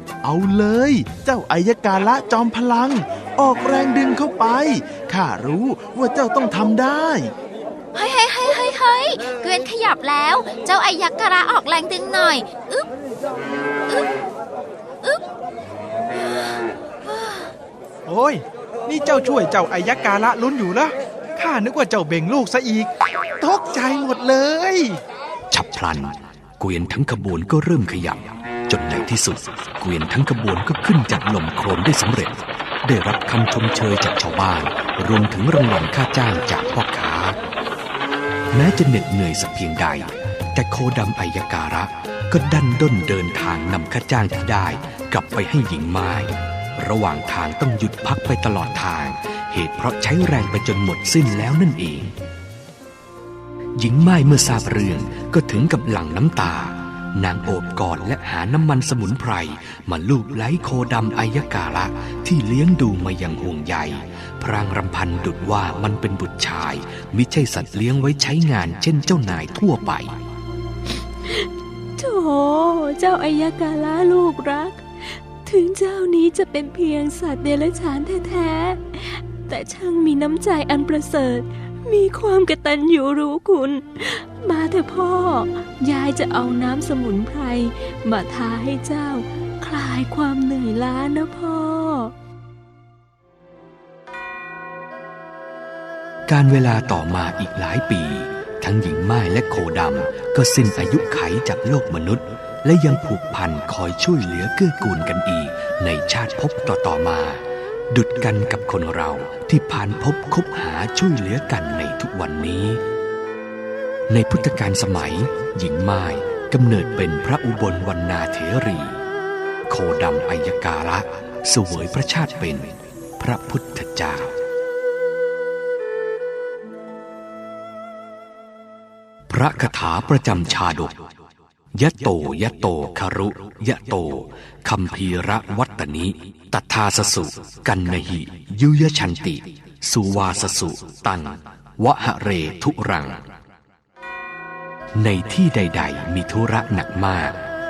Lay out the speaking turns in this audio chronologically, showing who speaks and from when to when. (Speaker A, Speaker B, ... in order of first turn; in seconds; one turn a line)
Speaker A: 0.2-7.3
Speaker B: 7.9-12.9
Speaker B: 16.2-17.5
Speaker C: 18.1-25.0
Speaker D: 25.5-37.4
Speaker D: 38.5-52.1
Speaker D: 53.8-70.1
Speaker E: 71.2-92.1
Speaker D: 96.3-112.8
Speaker D: 114.1-119.0
Speaker D: 119.7-124.3
Speaker D: 129.3-131.0
Speaker D: 131.7-143.2
Speaker D: 144.9-147.3